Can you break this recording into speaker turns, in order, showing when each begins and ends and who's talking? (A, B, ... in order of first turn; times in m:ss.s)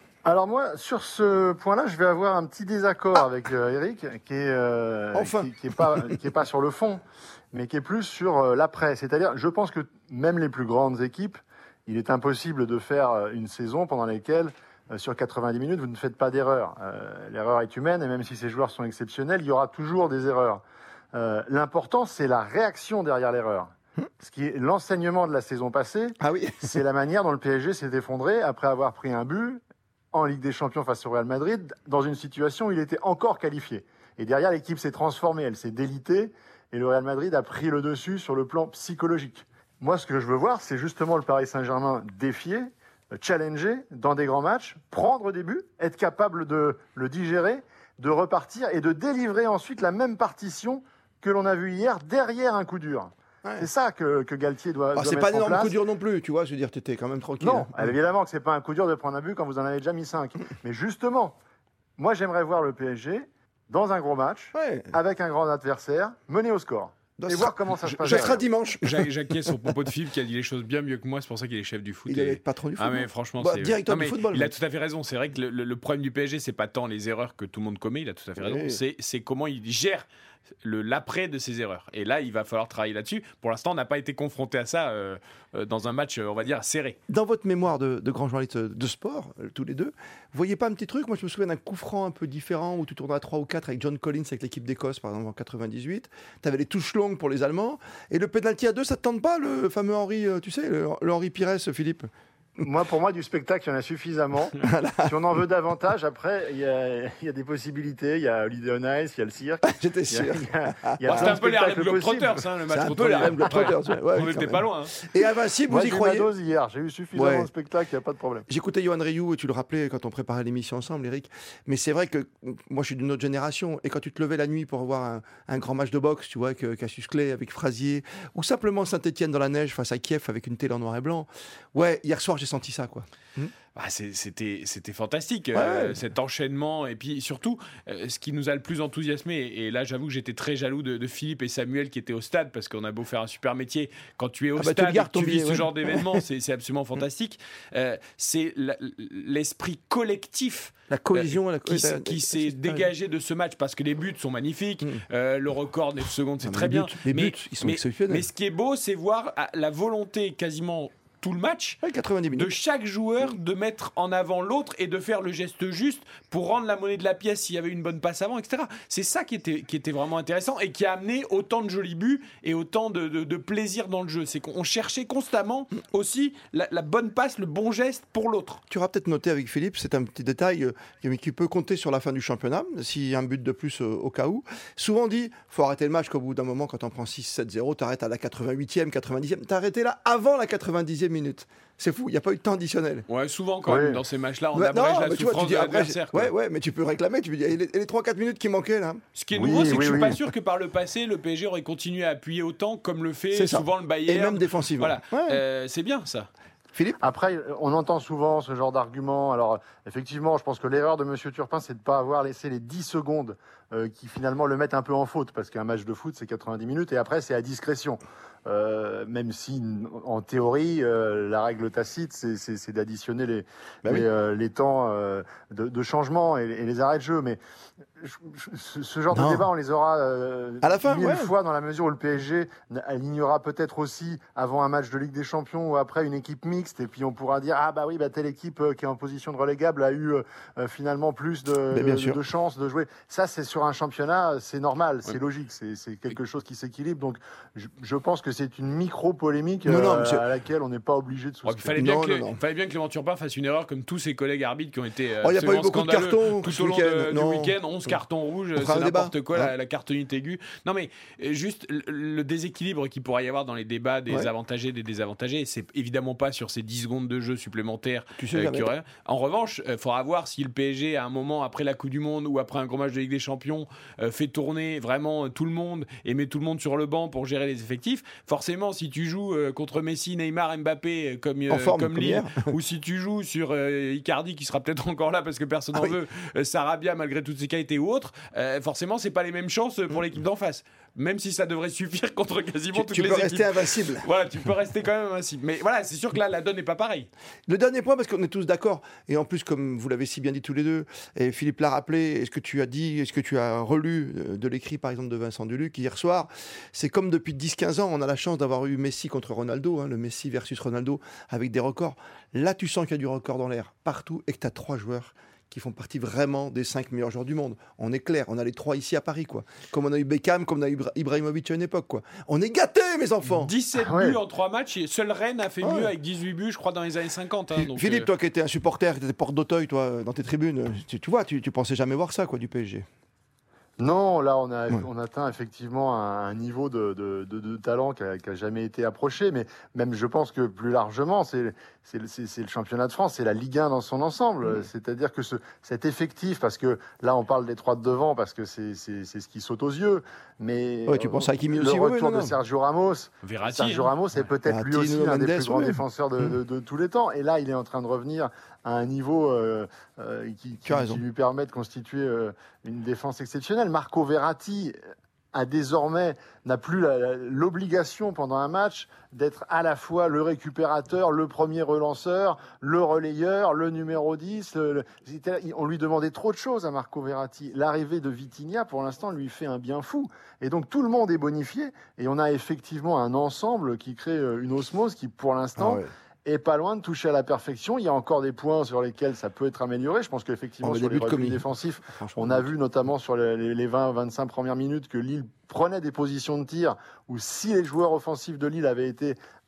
0:00.2-0:20.6 A
0:05.1-0:06.0 B
0:21.1-0:29.6 A
0:26.2-0:26.7 B
0:30.1-0:55.8 A
0:54.9-0:57.9 B
0:57.4-1:01.4 A
1:02.0-1:08.4 A
1:04.5-1:05.0 B
1:07.2-1:09.7 B
1:07.8-1:20.0 C
1:12.1-1:14.5 B
1:18.4-1:18.8 B
1:20.6-1:27.0 C
1:27.1-1:42.1 B
1:42.6-1:52.4 A
1:44.6-1:45.1 B
1:49.6-1:51.4 B
1:51.0-1:55.0 C
1:52.7-1:56.3 B
1:53.2-1:53.7 A
1:55.7-1:58.4 A
1:57.1-1:57.5 B
1:58.5-2:13.5 B
2:13.7-2:41.8 C
2:15.5-2:16.0 B
2:24.6-2:26.2 B
2:30.9-2:32.9 B
2:36.4-2:38.2 B
2:41.8-2:42.6 B
2:42.3-2:58.6 C
2:58.7-3:13.0 B
3:13.1-3:16.3 C
3:13.6-3:14.0 A
3:14.5-3:19.0 B
3:19.2-3:26.3 C
3:19.3-3:20.2 A
3:23.3-3:25.4 B
3:26.7-3:27.0 B
3:27.0-3:47.4 A
3:48.0-4:11.8 A
3:49.1-3:49.5 B
3:50.6-3:51.3 B
4:01.7-4:02.2 B
4:09.6-4:10.2 B
4:11.4-4:57.1 C
4:11.7-4:12.4 B
4:15.2-4:17.9 B
4:18.6-4:19.5 B
4:28.2-4:28.7 B
4:41.5-4:42.5 B
4:52.7-4:54.0 B
4:57.5-5:23.5 B
5:23.4-5:28.1 C
5:23.8-5:24.2 A
5:25.6-5:25.9 B
5:27.5-5:32.8 B
5:33.8-6:04.8 A
5:50.9-5:52.4 B
5:53.2-5:54.2 C
5:54.4-5:56.4 B
6:00.6-6:01.0 B
6:05.3-6:39.2 A
6:25.6-6:25.9 B
6:30.6-6:32.5 B